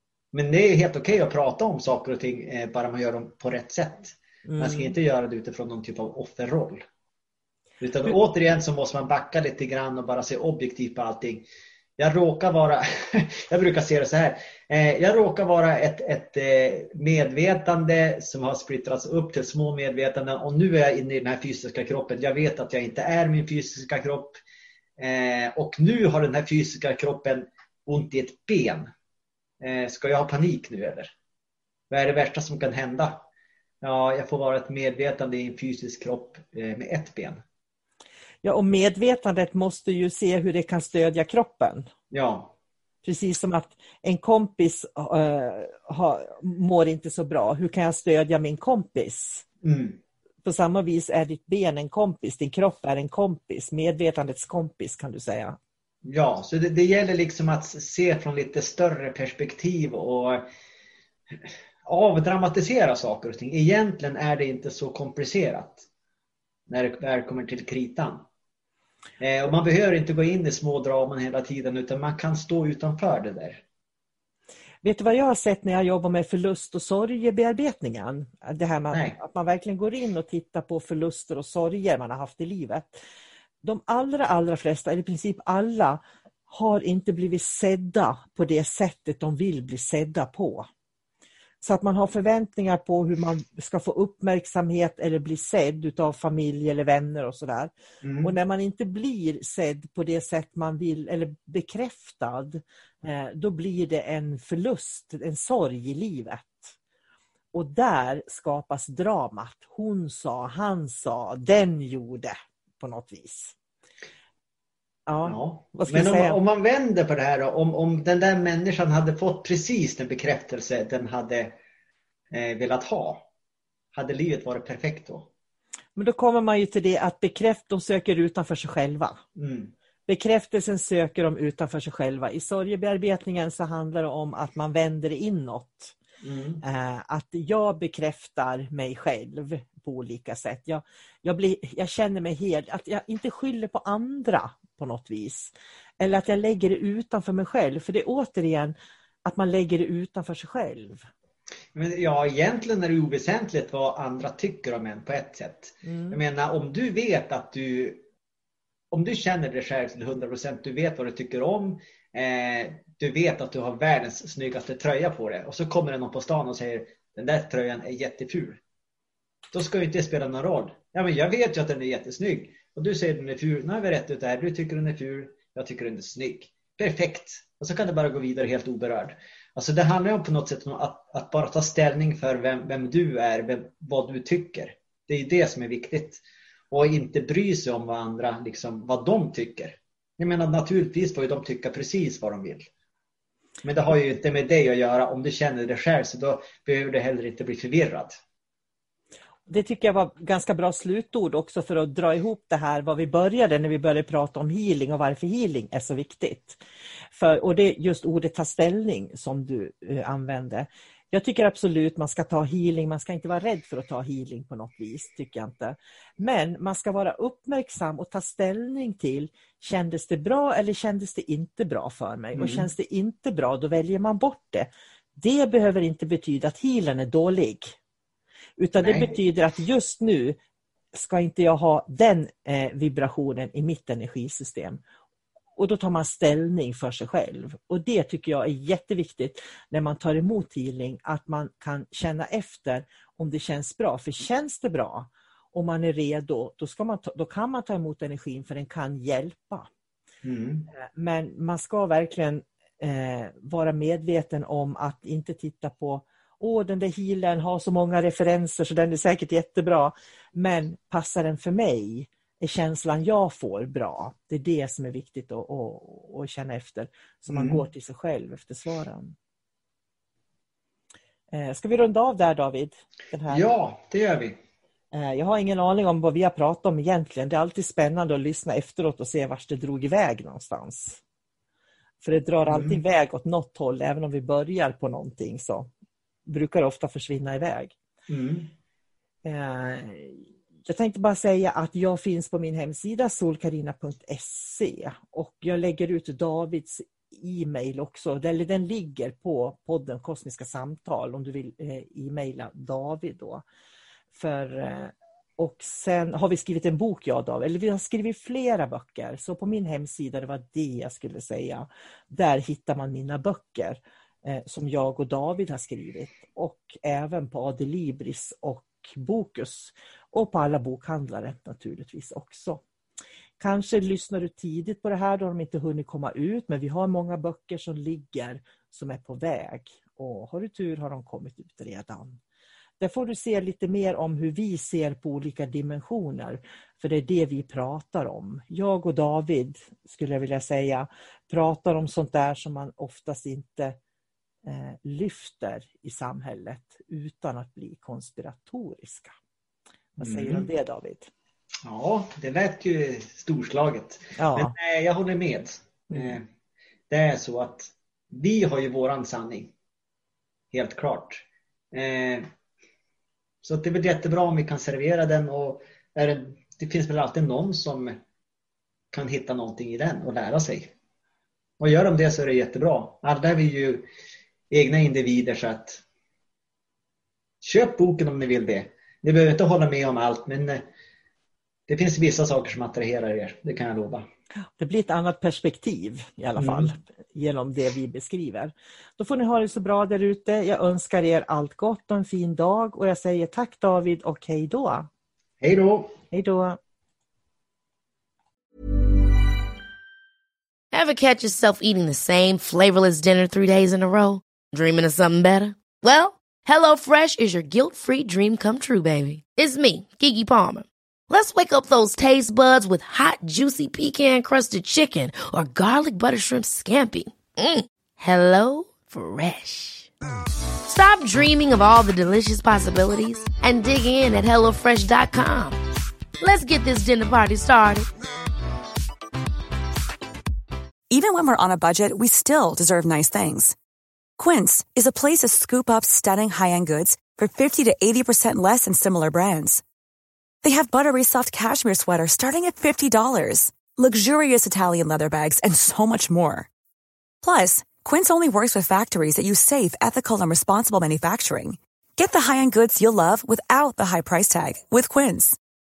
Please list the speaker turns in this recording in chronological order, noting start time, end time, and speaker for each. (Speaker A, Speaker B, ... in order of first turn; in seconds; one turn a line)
Speaker A: 0.3-6.8
Speaker B: 4.5-4.9
Speaker A: 7.8-11.5
Speaker A: 12.0-24.4
Speaker A: 25.0-28.9
Speaker A: 29.6-31.1
Speaker A: 31.9-33.2
Speaker A: 33.8-37.4
Speaker B: 38.4-41.9
Speaker A: 42.1-42.5
Speaker B: 43.0-49.5
Speaker A: 49.6-50.0
Speaker B: 50.4-55.6
Speaker A: 56.0-60.5
Speaker A: 61.4-65.8
Speaker A: 66.7-68.2
Speaker A: 69.2-73.6
Speaker B: 74.8-83.0
Speaker B: 83.6-90.7
Speaker B: 91.6-97.7
Speaker A: 98.0-98.3
Speaker B: 98.2-106.7
Speaker B: 107.5-113.5
Speaker B: 115.1-116.4
Speaker A: 115.2-121.6
Speaker A: 122.3-123.3
Speaker A: 123.9-125.3
Speaker B: 126.0-129.2
Speaker A: 129.4-129.7
Speaker B: 130.1-135.9
Speaker A: 136.2-136.6
Speaker B: 136.6-151.1
Speaker A: 151.8-158.1
Speaker B: 155.8-156.2
Speaker A: 158.9-168.6
Speaker A: 169.5-192.7
Speaker A: 193.6-198.2
Speaker B: 199.5-206.6
Speaker B: 207.1-227.8
Speaker A: 222.4-222.7
Speaker B: 228.6-230.4
Speaker A: 228.8-229.1
Speaker B: 230.9-234.8
Speaker B: 235.6-249.7
Speaker A: 250.2-250.7
Speaker B: 250.7-269.1
Speaker A: 267.3-267.6
Speaker B: 271.3-273.5
Speaker A: 273.3-274.4
Speaker B: 274.9-281.0
Speaker B: 282.0-285.7
Speaker A: 282.5-282.8
Speaker B: 286.3-287.7
Speaker A: 288.1-288.5
Speaker B: 289.2-303.4
Speaker B: 304.1-322.6
Speaker B: 323.4-332.2
Speaker B: 332.8-343.8
Speaker B: 344.5-349.1
Speaker A: 350.0-350.5
Speaker B: 350.0-351.1
Speaker A: 351.6-356.2
Speaker B: 354.2-354.5
Speaker B: 355.9-356.2
Speaker A: 356.9-359.5
Speaker A: 360.5-362.3
Speaker A: 363.4-368.0
Speaker A: 368.9-370.7
Speaker A: 371.6-373.9
Speaker A: 374.5-375.8
Speaker A: 377.4-380.7
Speaker A: 381.7-384.1
Speaker B: 384.6-394.9
Speaker A: 386.4-386.7
Speaker A: 395.4-396.0
Speaker B: 396.1-396.6
Speaker C: 400.7-419.9
Speaker C: 420.6-425.6
Speaker C: 426.2-427.9
Speaker D: 430.9-433.6
Speaker D: 434.2-439.6
Speaker D: 440.4-446.5
Speaker D: 447.2-455.4